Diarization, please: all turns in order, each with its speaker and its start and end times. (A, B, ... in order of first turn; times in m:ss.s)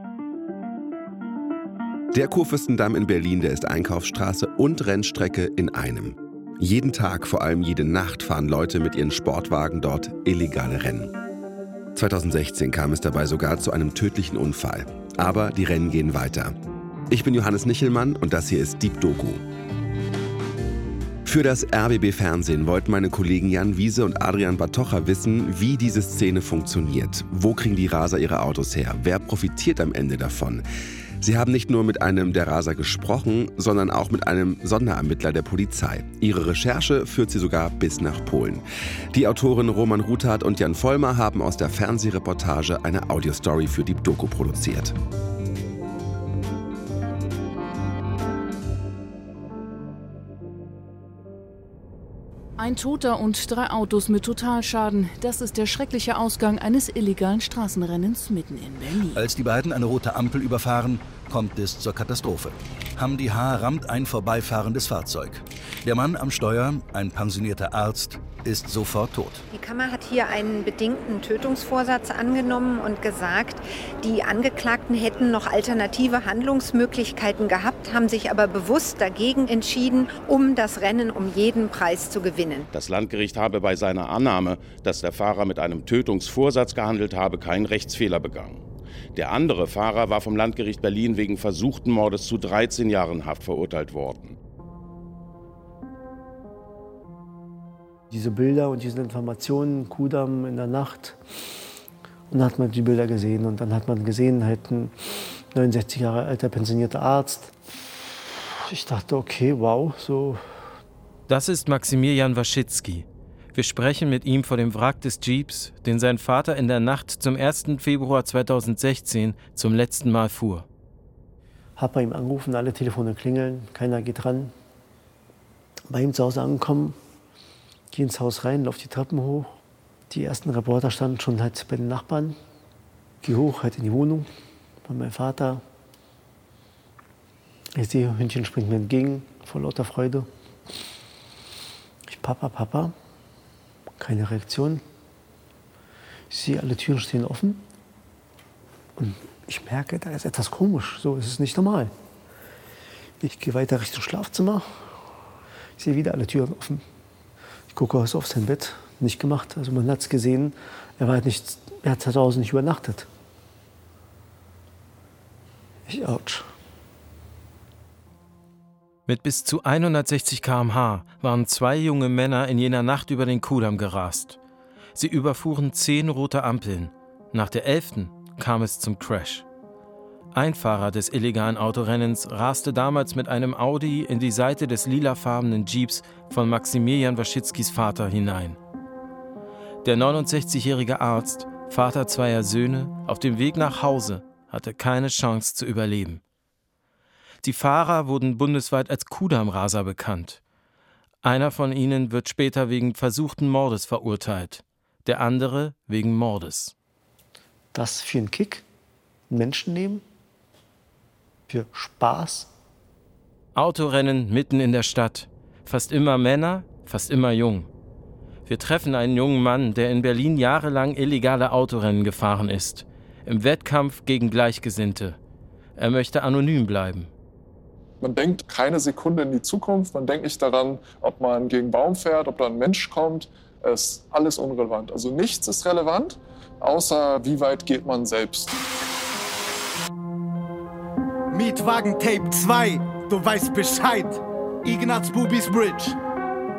0:02.1-0:11.1 A
0:12.0-0:16.5 A
0:17.1-0:19.4 A
0:21.2-0:30.7 A
0:31.2-0:44.9 A
0:52.6-0:59.2 B
0:59.1-1:09.5 C
1:09.5-1:22.7 D
1:22.7-1:28.6 E
1:29.2-1:34.4 E
1:38.1-1:41.6 F
1:42.3-1:47.5 F
1:48.4-1:50.4 F
1:51.3-2:00.7 G
2:01.8-2:04.5 F
2:05.9-2:07.0 F
2:07.9-2:09.6 F
2:10.1-2:12.4 F
2:13.2-2:14.3 F
2:14.8-2:15.6 F
2:17.8-2:20.3 F
2:22.1-2:22.9 F
2:24.0-2:24.8 F
2:26.3-2:27.6 F
2:29.0-2:31.9 F
2:33.2-2:35.0 F
2:35.8-2:36.8 F
2:37.7-2:43.1 F
2:45.9-2:46.5 F
2:49.1-2:54.4 G
2:55.0-2:59.5 G
3:00.3-3:08.6 G
3:09.8-3:16.2 G
3:17.4-3:20.4 G
3:21.2-3:26.7 G
3:27.7-3:28.6 F
3:29.3-3:30.0 F
3:31.5-3:32.5 F
3:33.6-3:37.7 G
3:38.5-3:45.2 G
3:45.8-3:47.1 G
3:48.0-3:58.6 H
4:01.3-4:06.0 I